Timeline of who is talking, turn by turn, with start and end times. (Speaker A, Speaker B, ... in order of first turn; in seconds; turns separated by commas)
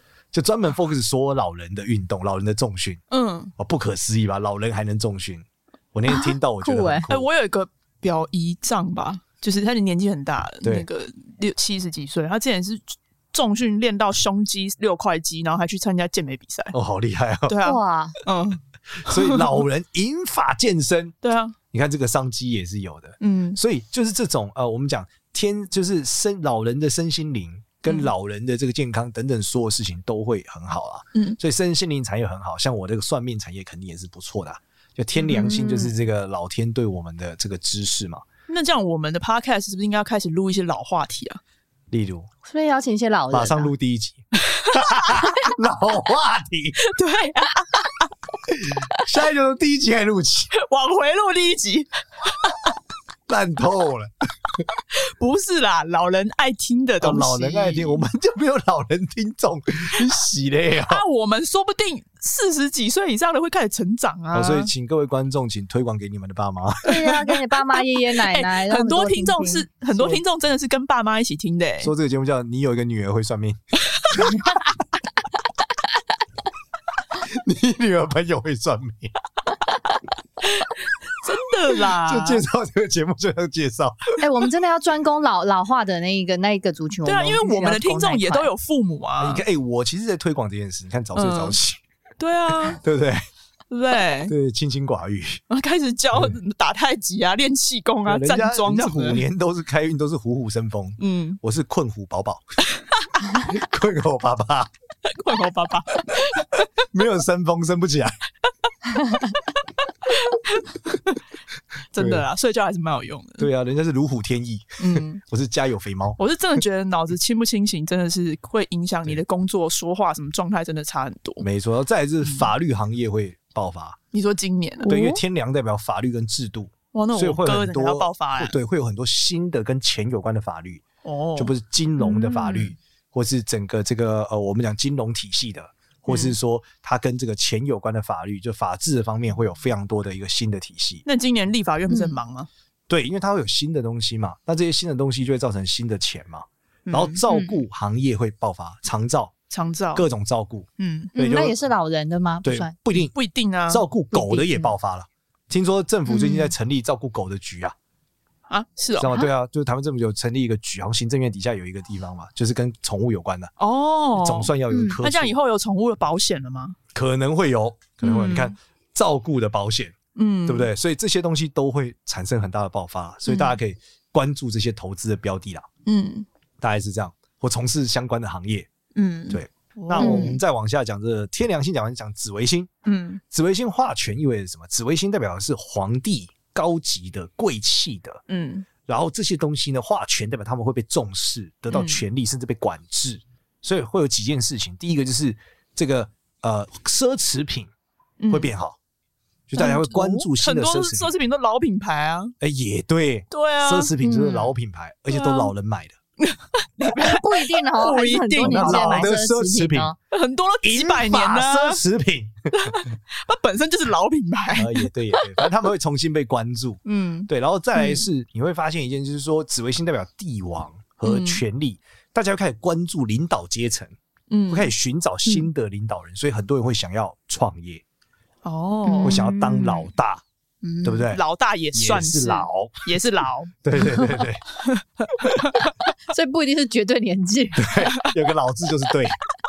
Speaker A: 0.3-3.0, Speaker B: 3.1-3.5, Speaker A: 3.6-7.2, Speaker C: 6.1-7.1, Speaker B: 7.1-16.8, Speaker A: 16.7-17.6, Speaker B: 17.5-19.6, Speaker C: 17.6-18.2, Speaker A: 19.1-21.2, Speaker B: 21.2-21.6, Speaker A: 21.7-38.2, Speaker B: 23.2-23.6, Speaker B: 27.9-28.1, Speaker C: 35.3-35.9, Speaker B: 38.5-41.4, Speaker A: 41.9-42.3, Speaker C: 42.5-43.7, Speaker A: 43.3-46.8, Speaker B: 44.5-45.2, Speaker B: 46.8-48.1, Speaker A: 48.5-50.5, Speaker B: 50.5-52.5, Speaker A: 53.3-54.7, Speaker B: 55.0-58.0, Speaker A: 57.0-61.0, Speaker B: 60.8-64.7, Speaker A: 64.3-66.9, Speaker C: 66.8-69.6, Speaker B: 67.0-71.9, Speaker A: 69.9-70.2, Speaker A: 71.8-73.6, Speaker A: 74.1-74.5, Speaker A: 77.1-79.1, Speaker B: 80.4-82.4, Speaker A: 81.8-84.2, Speaker C: 84.2-88.5, Speaker B: 87.0-89.4, Speaker A: 89.2-91.8, Speaker B: 91.1-91.6, Speaker B: 92.2-92.8, Speaker A: 92.7-93.2, Speaker B: 93.7-94.3, Speaker A: 94.3-95.4, Speaker B: 95.5-99.2, Speaker A: 98.1-102.4, Speaker B: 101.0-101.4, Speaker A: 103.3-104.7, Speaker B: 105.0-106.7, Speaker A: 106.8-108.2, Speaker B: 110.1-111.2, Speaker B: 111.9-113.5, Speaker A: 112.0-112.2, Speaker A: 113.4-116.2, Speaker B: 114.8-115.2, Speaker B: 116.2-121.5, Speaker A: 121.4-124.0, Speaker B: 124.1-125.2, Speaker A: 124.8-130.8, Speaker B: 126.9-128.6, Speaker B: 131.0-131.5, Speaker A: 131.4-141.0, Speaker B: 132.1-132.7, Speaker B: 136.1-136.3, Speaker B: 141.1-142.5, Speaker C: 141.9-142.2, Speaker A: 142.9-149.3, Speaker B: 146.9-147.2, Speaker C: 147.3-147.6, Speaker B: 149.5-150.1, Speaker A: 149.9-151.6, Speaker B: 150.8-151.1, Speaker C: 151.2-152.8, Speaker A: 152.4-153.1, Speaker B: 152.9-153.8, Speaker A: 153.7-157.8, Speaker C: 154.1-154.7, Speaker C: 156.1-156.5, Speaker B: 158.5-159.2, Speaker A: 159.0-163.5, Speaker B: 163.6-166.8, Speaker A: 164.1-165.3, Speaker C: 164.7-165.0, Speaker A: 166.9-169.9, Speaker B: 168.0-168.6, Speaker B: 170.2-170.7, Speaker A: 170.5-175.7, Speaker B: 173.3-173.6, Speaker B: 175.9-176.2, Speaker A: 176.6-178.7, Speaker B: 178.9-180.4, Speaker A: 179.3-182.7, Speaker C: 180.0-180.4, Speaker B: 182.8-183.2, Speaker A: 183.3-188.2, Speaker B: 188.3-188.7, Speaker A: 188.8-197.7, Speaker B: 191.7-192.0, Speaker B: 198.2-198.5, Speaker A: 198.3-198.8, Speaker A: 199.5-201.1, Speaker B: 199.6-202.3, Speaker A: 202.4-206.0, Speaker B: 203.3-203.9, Speaker C: 204.0-204.5, Speaker B: 205.1-205.5, Speaker B: 206.2-209.1, Speaker C: 206.9-210.0, Speaker A: 208.4-209.9, Speaker B: 210.1-211.8, Speaker A: 210.6-212.8, Speaker B: 212.6-215.3, Speaker A: 214.6-223.9, Speaker B: 216.8-218.0, Speaker B: 221.1-221.4, Speaker B: 224.3-224.7, Speaker A: 224.5-227.8, Speaker B: 228.4-229.2, Speaker C: 228.9-229.9, Speaker A: 229.0-230.2, Speaker B: 230.6-233.6, Speaker A: 230.8-231.2, Speaker A: 231.7-232.9, Speaker A: 233.6-234.4, Speaker B: 234.6-235.7, Speaker C: 236.1-237.7, Speaker A: 237.6-239.2